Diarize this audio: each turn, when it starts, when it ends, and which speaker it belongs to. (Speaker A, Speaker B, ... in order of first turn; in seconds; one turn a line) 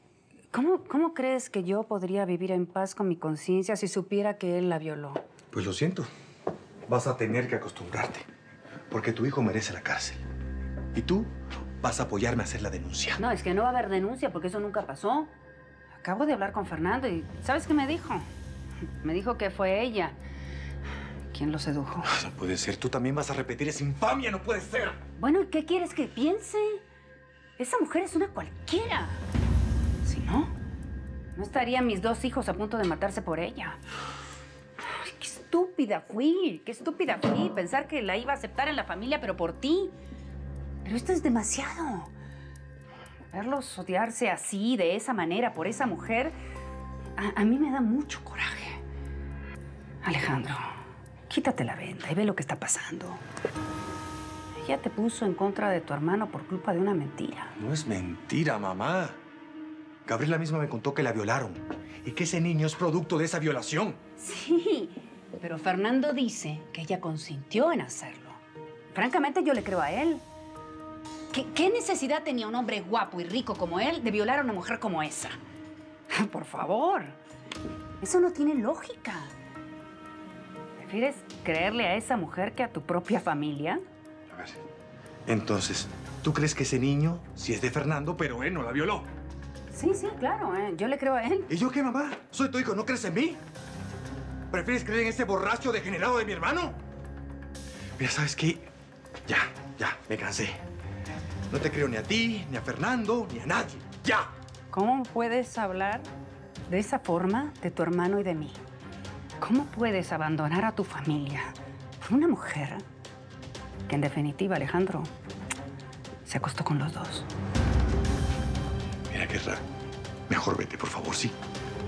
Speaker A: 0.5-5.2
Speaker B: 5.5-6.1
Speaker B: 6.9-8.3
Speaker B: 8.9-10.2
Speaker B: 10.9-13.2
Speaker A: 13.2-15.3
Speaker A: 16.0-18.3
Speaker A: 19.0-20.2
Speaker A: 21.3-22.1
Speaker B: 22.1-25.0
Speaker A: 25.2-26.8
Speaker A: 27.6-29.2
Speaker A: 30.0-30.5
Speaker A: 31.4-33.8
Speaker A: 34.8-39.9
Speaker A: 40.9-42.1
Speaker A: 43.3-46.3
Speaker A: 47.2-48.8
Speaker A: 50.0-50.7
Speaker A: 51.3-53.2
Speaker A: 54.6-57.5
Speaker B: 57.6-59.2
Speaker B: 60.1-64.0
Speaker A: 64.2-68.4
Speaker A: 68.9-70.2
Speaker A: 71.3-75.4
Speaker A: 76.1-77.2
Speaker A: 78.0-79.3
Speaker A: 80.8-83.8
Speaker B: 84.3-84.6
Speaker B: 85.3-89.1
Speaker A: 89.7-91.5
Speaker B: 91.5-93.4
Speaker B: 94.5-96.8
Speaker B: 98.0-98.7
Speaker B: 99.3-100.6
Speaker B: 101.5-104.3
Speaker A: 104.7-106.1
Speaker A: 106.7-108.6
Speaker A: 109.4-112.8
Speaker A: 113.9-115.1
Speaker A: 116.2-117.3
Speaker B: 119.1-119.6
Speaker B: 120.3-121.3